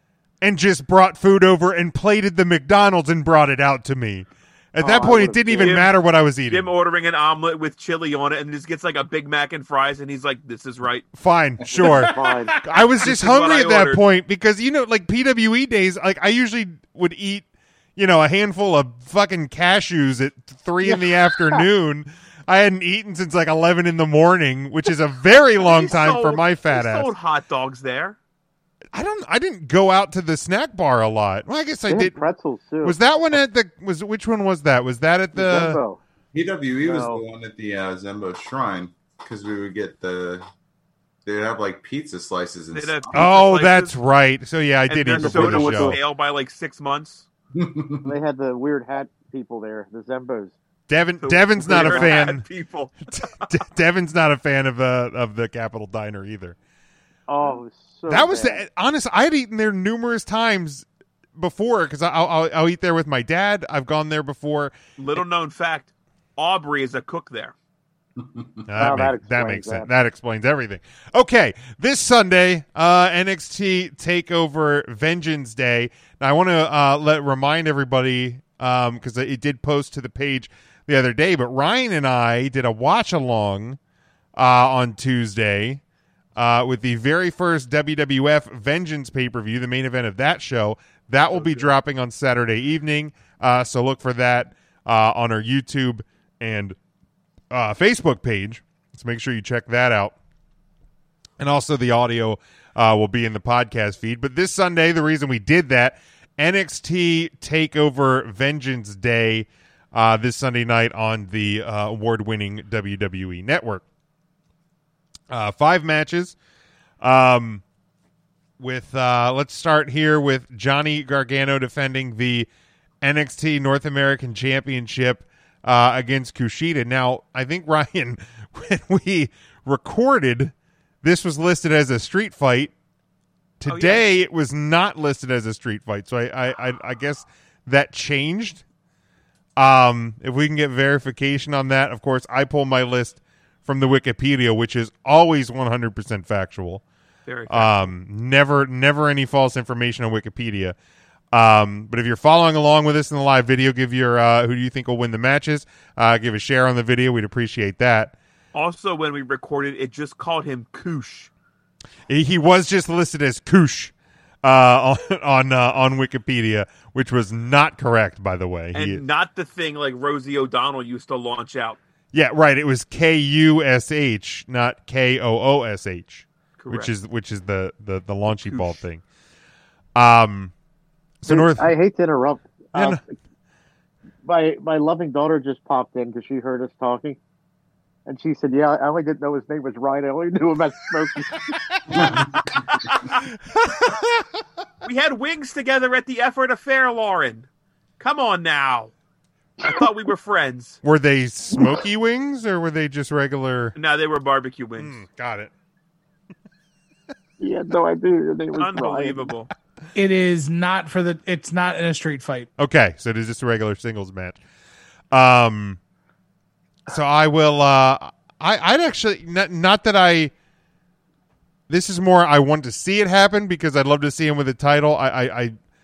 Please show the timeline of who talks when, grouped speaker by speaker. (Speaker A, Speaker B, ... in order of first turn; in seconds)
Speaker A: 0.4-6.7, 11.2-17.4, 18.0-27.1, 28.9-32.2, 32.8-35.8, 43.1-46.0, 50.9-52.5, 53.5-56.6, 58.1-64.7, 68.7-83.8, 84.4-85.8, 86.4-96.8, 97.5-100.2, 101.4-113.8, 115.3-116.3, 117.0-117.6, 118.6-122.5, 123.0-132.7, 133.6-138.6, 139.6-146.8, 147.5-150.8, 151.3-158.2, 162.1-169.0, 172.1-179.0, 180.0-180.5, 181.2-181.7, 182.7-183.0, 193.6-194.1, 200.8-203.7, 204.8-205.5, 212.6-214.4, 215.1-215.8, 216.9-220.3, 221.7-225.6
Speaker B: 4.8-5.8, 11.7-12.5, 20.8-21.6, 31.9-33.0, 35.3-36.0, 36.8-37.2, 45.1-46.0, 48.1-50.5, 51.6-52.2, 57.3-58.6, 68.8-69.9, 181.3-183.1, 184.2-187.2, 188.1-191.5, 207.4-209.3
Speaker C: 5.6-5.9, 6.5-11.1, 13.0-14.0, 25.6-28.2, 42.7-44.0, 44.9-47.3, 51.2-53.6, 65.0-67.5, 91.3-91.7, 133.7-134.0, 147.3-147.9, 158.5-161.3, 168.7-171.8, 176.6-176.9, 178.3-178.8, 194.8-197.5, 198.0-198.9, 199.6-200.8, 203.8-205.0, 208.6-209.5
Speaker D: 36.3-40.5, 41.2-43.2, 47.5-48.1, 68.2-68.6, 191.9-192.3
Speaker E: 210.0-212.5